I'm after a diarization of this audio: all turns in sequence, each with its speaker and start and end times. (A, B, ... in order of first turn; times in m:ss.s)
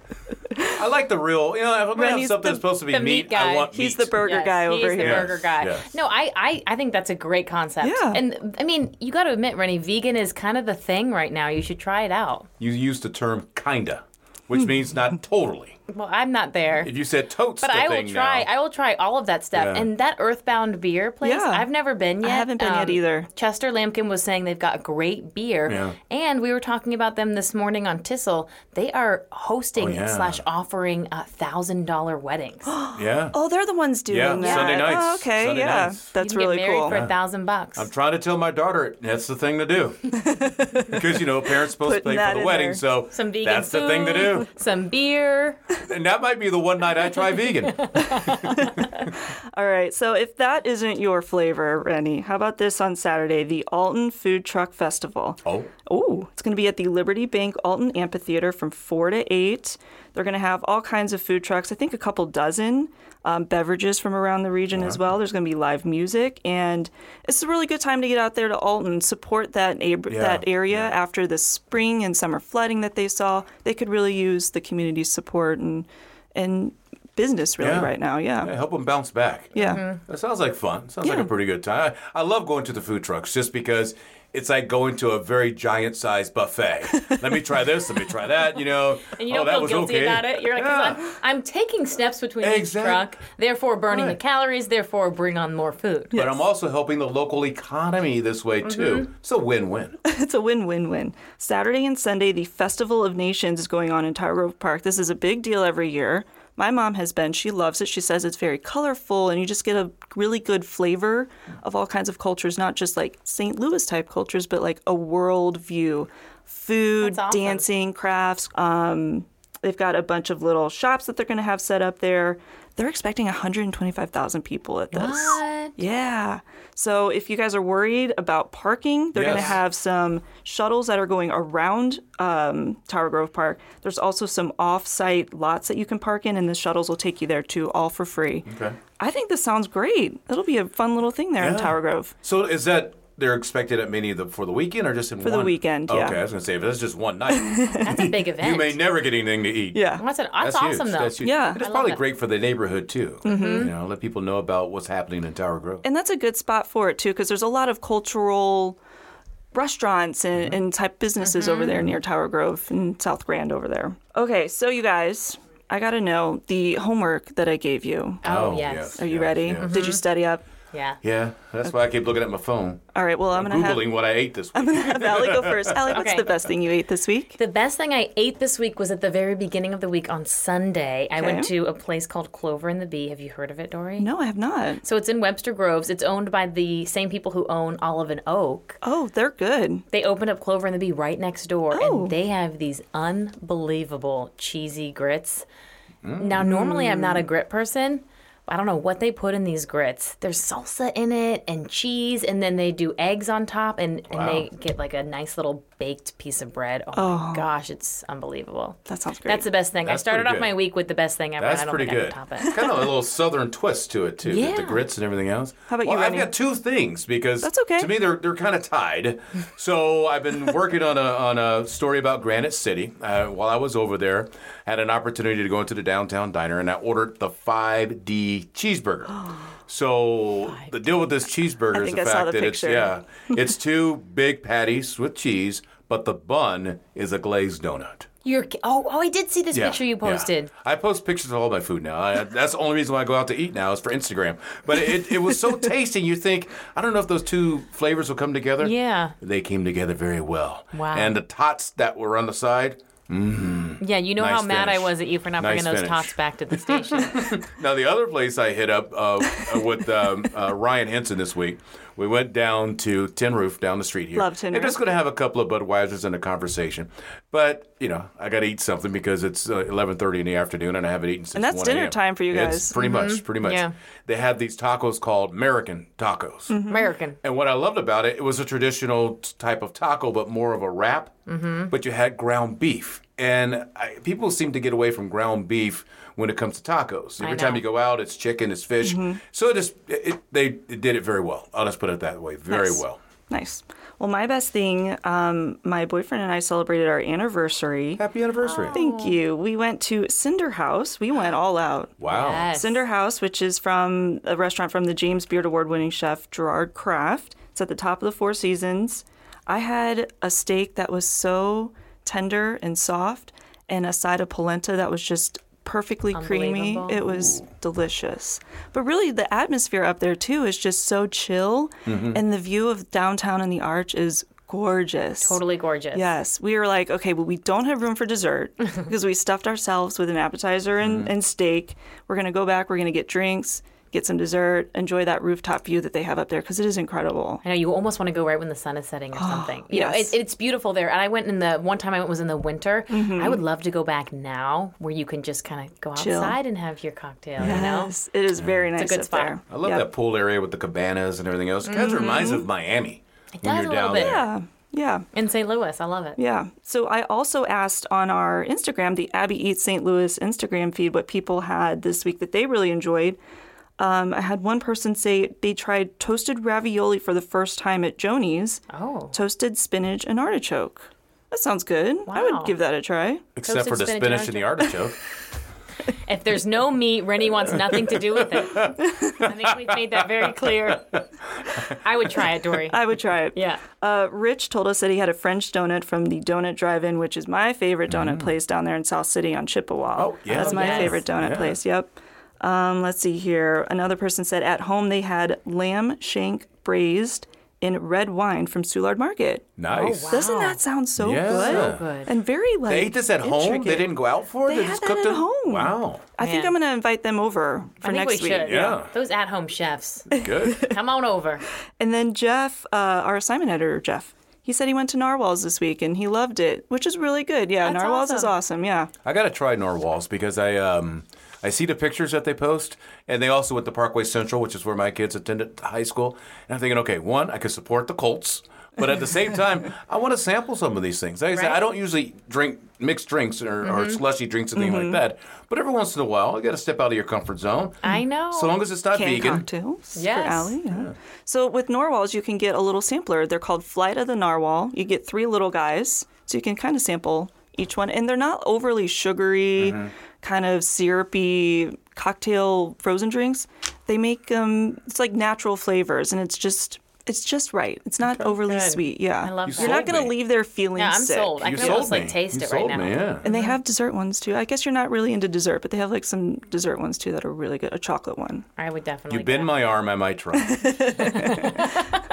0:00.6-0:04.2 A
0:01.9-0:02.7 B
0:02.9-0:12.5 C
0:03.7-0:05.3 B
0:05.0-0:05.9 A
0:07.8-0:08.2 B
0:12.6-0:15.8 A
0:15.9-0:16.9 C
0:16.8-0:18.5 A
0:17.6-0:32.8 C
0:19.5-0:19.9 A
0:21.2-0:21.7 B
0:22.2-0:23.3 B
0:25.6-0:26.0 A
0:29.8-0:30.4 A
0:32.7-0:36.9 B
0:32.9-0:33.4 A
0:34.1-0:36.1 A
0:34.4-0:34.8 C
0:36.2-0:37.9 C
0:36.9-0:37.1 A
0:37.8-0:40.4 A
0:40.4-0:42.8 B
0:40.9-0:44.5 A
0:43.1-0:45.6 C
0:45.8-0:48.6 A
0:47.7-0:48.9 C
0:48.3-1:18.5 B
0:55.4-0:55.7 A
1:04.7-1:05.0 A
1:10.1-1:11.0 A
1:17.6-1:31.1 A
1:19.5-1:19.8 B
1:19.6-1:20.0 C
1:21.0-1:21.3 B
1:29.1-1:36.2 C
1:32.4-1:33.1 A
1:33.9-1:34.2 A
1:36.1-1:36.4 B
1:36.1-1:40.0 A
1:38.6-1:39.1 C
1:40.0-2:18.5 B
1:57.0-1:57.7 C
2:04.9-2:05.8 C
2:09.1-2:09.6 A
2:18.4-2:18.8 A
2:19.0-2:22.1 B
2:21.4-2:35.8 A
2:25.2-2:26.2 B
2:27.3-2:27.9 B
2:27.8-2:28.8 C
2:29.7-2:30.0 B
2:30.0-2:32.0 C
2:31.2-2:31.6 B
2:33.2-2:33.7 B
2:33.2-2:33.7 C
2:35.8-2:38.8 B
2:39.5-2:48.2 B
2:41.2-2:41.9 C
2:48.2-2:49.0 C
2:48.2-2:49.9 A
2:49.0-2:50.4 B
2:49.5-2:50.0 C
2:50.7-2:51.0 C
2:51.0-2:55.9 A
2:52.9-2:57.4 B
2:55.9-2:56.4 C
2:57.4-3:04.1 C
3:01.2-3:01.5 B
3:04.0-3:04.8 B
3:04.8-3:08.8 C
3:08.8-3:09.8 B
3:09.9-3:15.4 C
3:11.7-3:12.2 B
3:16.0-3:16.4 A
3:16.2-3:32.6 C
3:16.4-3:17.3 B
3:24.1-3:24.5 A
3:26.9-3:27.5 B
3:28.9-3:29.5 B
3:29.8-3:30.6 A
3:31.4-3:58.1 A
3:32.5-3:32.9 B
3:34.2-3:34.8 C
3:35.7-3:36.4 B
3:37.4-3:37.9 B
3:50.5-3:50.7 C
3:51.7-3:53.0 B
3:58.2-4:00.5 C
3:59.5-4:16.1 A
4:08.6-4:09.1 C
4:10.7-4:11.2 C
4:13.8-4:17.3 C
4:16.7-4:36.6 A
4:24.1-4:24.8 B
4:31.3-4:32.8 B
4:32.8-4:33.7 C
4:36.5-4:36.9 B
4:36.7-4:37.2 C
4:37.2-4:41.1 A
4:41.3-4:41.7 C
4:41.7-4:53.0 A
4:47.2-4:47.6 C
4:48.8-4:49.2 B
4:52.5-4:58.0 B
4:58.0-4:58.8 A
4:58.4-4:59.2 C
4:58.7-5:25.4 B
5:02.0-5:02.5 A
5:02.0-5:02.8 C
5:16.1-5:17.1 C
5:17.1-5:17.4 A
5:21.9-5:22.2 A
5:25.2-5:26.2 C
5:25.9-5:37.4 B
5:30.8-5:31.1 A
5:37.4-5:47.9 C
5:39.1-5:40.2 B
5:42.9-5:43.4 B
5:46.0-5:46.4 B
5:47.4-5:47.6 A
5:47.4-5:49.9 B
5:48.4-5:48.7 A
5:48.8-5:49.4 C
5:49.5-5:54.3 A
5:51.7-5:52.5 B
5:53.3-5:54.2 C
5:53.9-5:55.0 B
5:55.1-5:56.2 C
5:56.2-6:03.2 B
6:03.8-6:13.3 B
6:08.7-6:09.2 C
6:12.1-6:12.5 C
6:13.4-6:15.0 A
6:13.4-6:14.6 C
6:16.0-6:21.0 C
6:18.6-6:21.0 A
6:21.7-6:23.6 C
6:22.6-6:39.5 B
6:27.9-6:28.3 A
6:30.0-6:31.6 A
6:30.3-6:31.0 C
6:39.6-6:40.2 A
6:39.7-6:40.6 C
6:40.1-6:48.8 B
6:41.0-6:41.9 A
6:41.3-6:42.1 C
6:42.7-6:46.1 A
6:46.2-6:46.6 C
6:47.8-6:51.4 C
6:48.4-6:48.9 A
6:50.1-6:50.7 A
6:50.1-6:50.8 B
6:51.8-6:58.9 B
6:57.6-6:58.3 C
6:59.0-7:19.5 A
7:11.3-7:11.6 C
7:13.6-7:14.0 C
7:14.5-7:15.0 B
7:17.8-7:18.6 C
7:18.9-7:41.9 B
7:20.0-7:20.6 C
7:20.7-7:20.9 A
7:29.6-7:29.9 A
7:38.0-7:40.1 C
7:39.4-7:40.2 A
7:40.8-7:43.6 C
7:41.4-7:43.3 A
7:43.2-7:48.4 B
7:48.6-7:49.6 C
7:49.1-7:50.9 A
7:50.4-7:51.8 B
7:51.0-7:52.0 C